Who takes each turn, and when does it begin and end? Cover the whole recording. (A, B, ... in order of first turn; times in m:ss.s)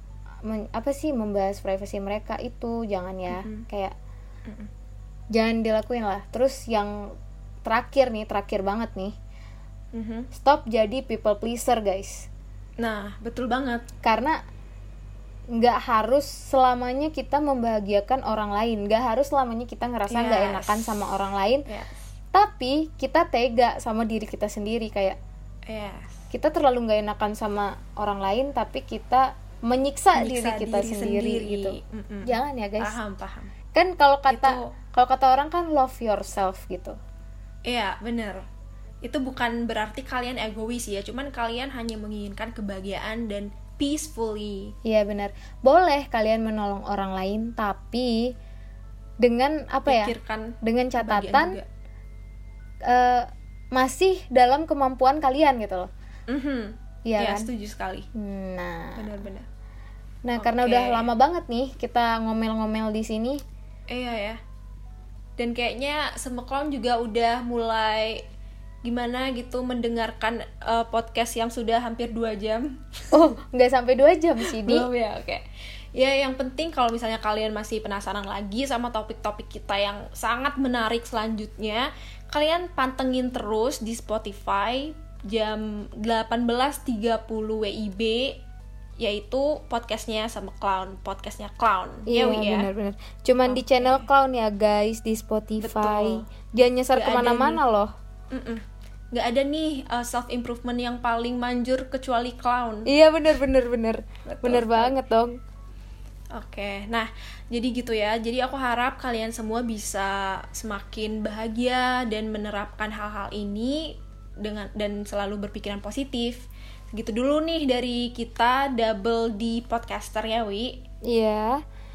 0:00.4-0:04.0 A
0:03.3-0:03.7 B
0:05.3-0:09.2 A
0:09.9-0:10.3 B
0:10.3-0:12.3 A
0:12.8-0:13.9 B
0:14.0-0:14.4 A
0:15.6-0:21.7 A
0:20.1-0:21.1 B
0:21.7-0:22.1 B
0:22.3-0:25.2 A
0:25.7-0:26.2 B
0:26.3-0:33.0 A
0:30.2-0:33.5 B
0:33.7-0:37.0 A
0:34.3-0:34.7 B
0:37.7-0:38.4 B
0:39.0-0:44.7 B
0:44.8-0:48.3 A
0:49.2-0:51.6 A
0:49.9-0:51.7 B
0:52.8-0:55.9 A
0:56.3-0:58.1 B
0:57.1-0:57.5 A
0:58.1-0:59.1 A
0:59.0-0:59.5 B
1:00.2-1:03.4 A
1:00.4-1:01.1 B
1:03.9-1:04.4 B
1:05.4-1:08.2 B
1:08.8-1:13.2 B
1:13.1-1:14.9 A
1:14.4-1:15.4 B
1:16.0-1:28.4 B
1:29.0-1:32.7 B
1:32.1-1:37.9 A
1:33.5-1:34.1 B
1:35.6-1:36.3 B
1:36.9-1:37.6 B
1:38.3-1:42.9 B
1:42.9-1:45.4 A
1:44.2-1:45.0 B
1:46.3-1:56.4 B
1:56.9-2:00.8 B
2:01.1-2:01.6 A